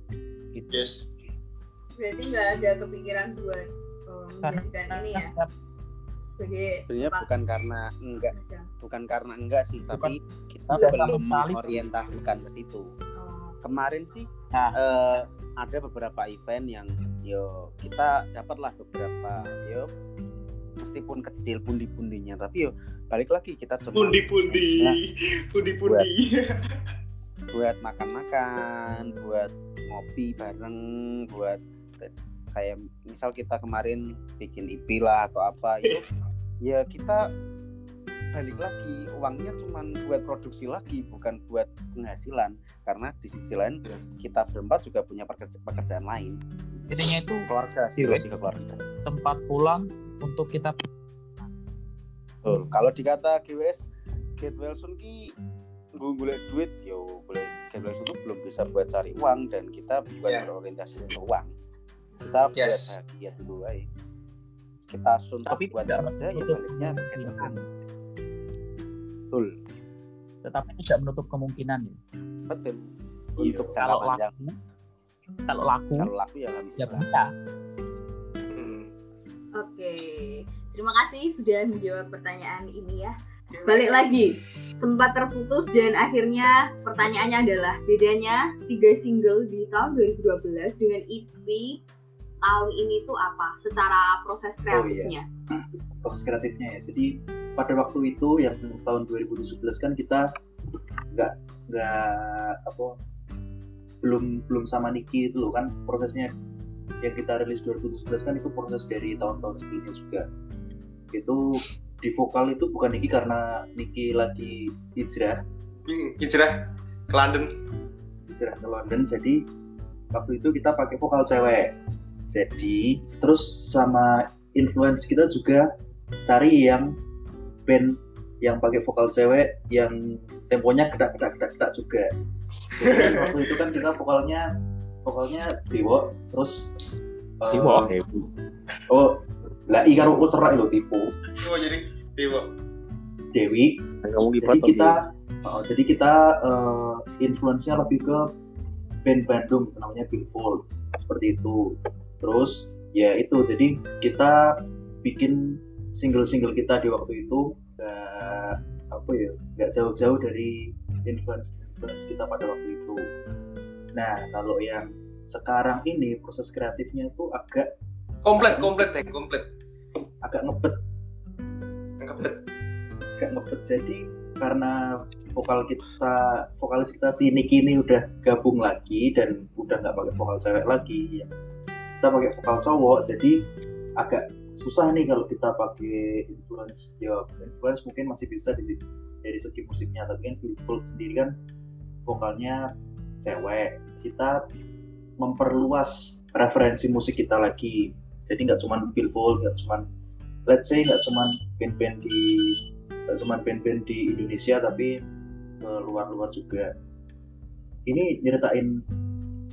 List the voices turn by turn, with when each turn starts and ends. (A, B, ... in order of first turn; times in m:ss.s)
0:00.5-0:00.8 A
0:00.7-0:01.1 B
0:02.0-0:05.3 C
0:04.4-0:05.5 A
0:06.4-0:07.4 C
0:06.9-0:12.9 D
0:08.3-0:08.7 C
0:09.9-0:10.2 A
0:10.7-0:11.7 A
0:10.7-0:11.1 C
0:13.2-0:13.6 C
0:13.6-0:19.9 D
0:14.5-0:14.8 A
0:20.8-0:25.0 D
0:23.9-0:26.6 B
0:27.5-0:30.8 D
0:31.3-0:36.0 D
0:36.6-0:37.2 D
0:38.3-0:46.4 D
0:46.9-0:50.8 A
0:47.5-0:48.8 D
0:52.4-0:52.8 A
0:52.4-0:53.8 D
0:54.4-0:55.3 D
0:56.0-1:01.5 D
1:02.2-1:03.9 D
1:02.6-1:03.0 B
1:04.9-1:07.6 D
1:05.5-1:07.6 A
1:10.4-1:12.0 A
1:12.5-1:12.8 D
1:13.4-1:13.7 E
1:13.4-1:14.4 D
1:13.8-1:14.5 A
1:15.5-1:16.1 A
1:16.0-1:17.1 D
1:16.8-1:17.3 A
1:18.5-1:18.9 B
1:19.6-1:23.1 C
1:23.5-1:24.2 B
1:23.6-1:31.8 C
1:32.4-1:35.2 C
1:34.7-1:40.3 E
1:41.1-1:42.9 E
1:44.0-1:46.3 E
1:47.0-1:50.3 E
1:51.1-1:55.4 E
1:55.9-1:56.6 B
1:57.1-1:57.5 B
1:58.3-1:59.4 E
2:00.1-2:01.7 E
2:02.3-2:05.7 E
2:06.2-2:07.0 E
2:07.7-2:12.1 E
2:12.8-2:14.4 E
2:12.8-2:13.3 B
2:15.0-2:16.7 E
2:17.4-2:17.9 E
2:17.5-2:17.9 A
2:17.8-2:18.1 D
2:18.9-2:21.1 E
2:21.4-2:22.5 B
2:23.3-2:23.8 E
2:24.0-2:25.0 D
2:24.4-2:28.3 E
2:29.0-2:34.5 E
2:35.0-2:43.0 E
2:44.0-2:47.7 E
2:48.2-2:49.5 B
2:48.4-2:48.9 E
2:50.2-2:50.8 E
2:52.0-2:52.4 B
2:53.2-3:01.3 E
3:02.0-3:03.4 E
3:04.0-3:11.3 E
3:12.1-3:12.7 E
3:13.2-3:14.4 E
3:15.2-3:19.9 E
3:20.5-3:22.6 E
3:23.1-3:25.0 E
3:25.6-3:26.7 E
3:27.9-3:28.7 E